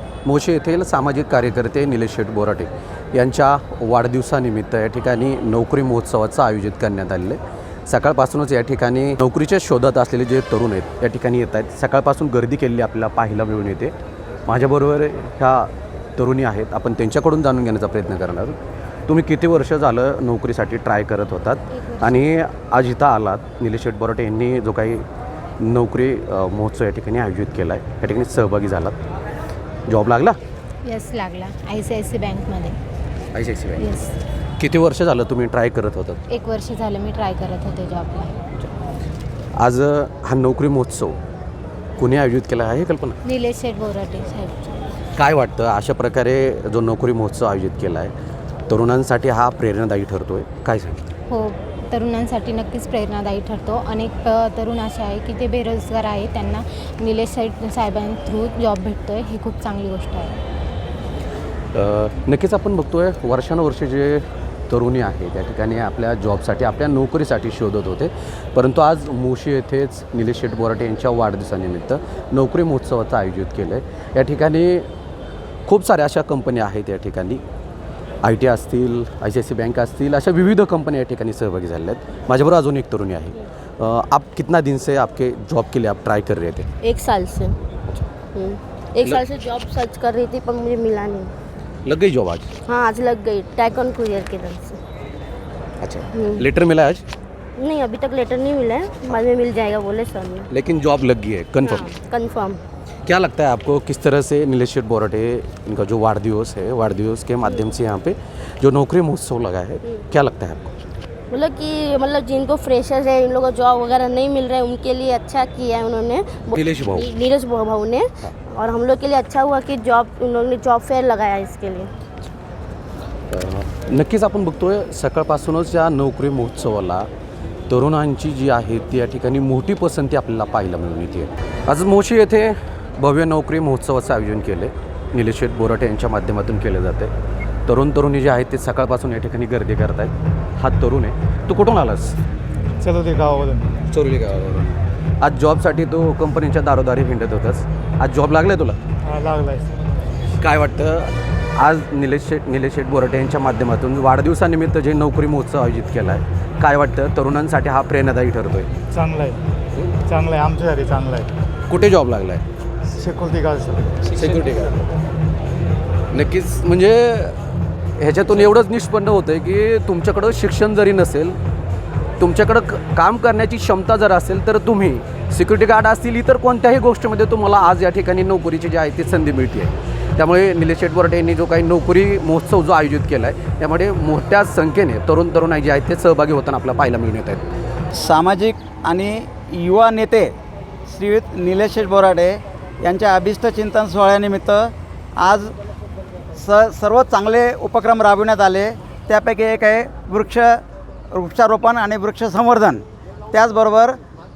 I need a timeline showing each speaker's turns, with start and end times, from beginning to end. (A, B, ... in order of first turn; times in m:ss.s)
0:00.2-0:13.9 A
0:14.5-0:18.6 A
0:19.1-0:25.0 A
0:21.7-0:22.2 B
0:25.6-0:29.0 A
0:29.9-0:30.4 A
0:30.8-0:32.8 B
0:33.3-0:33.9 A
0:33.8-0:34.1 B
0:34.6-0:36.2 A
0:36.3-0:38.4 B
0:39.6-0:41.2 A
0:42.0-0:43.2 A
0:43.2-0:44.7 B
0:45.2-0:48.1 A
0:48.7-0:51.1 A
0:51.3-1:00.4 B
1:01.7-1:14.9 A
1:15.6-1:17.4 A
1:18.2-1:26.7 A
1:26.8-1:27.6 C
1:28.3-1:31.3 C
1:31.8-1:32.5 A
1:32.6-1:34.8 C
1:35.8-1:37.0 A
1:36.1-1:36.4 C
1:37.6-1:40.5 C
1:40.5-1:41.9 A
1:41.6-1:42.6 C
1:43.0-1:50.7 A
1:51.3-2:01.9 C
1:56.5-1:57.1 A
2:03.3-2:07.1 A
2:07.7-2:17.1 A
2:17.7-2:22.2 A
2:22.8-2:23.7 D
2:23.9-2:28.8 A
2:29.0-2:29.7 D
2:30.4-2:38.7 A
2:38.9-2:39.4 D
2:40.0-2:41.3 D
2:41.7-2:42.4 A
2:42.9-2:44.4 D
2:44.0-2:44.8 A
2:46.1-2:47.4 A
2:48.0-2:51.4 A
2:52.2-3:07.5 A
3:07.9-3:10.3 E
3:10.9-3:15.5 E
3:16.4-3:24.0 E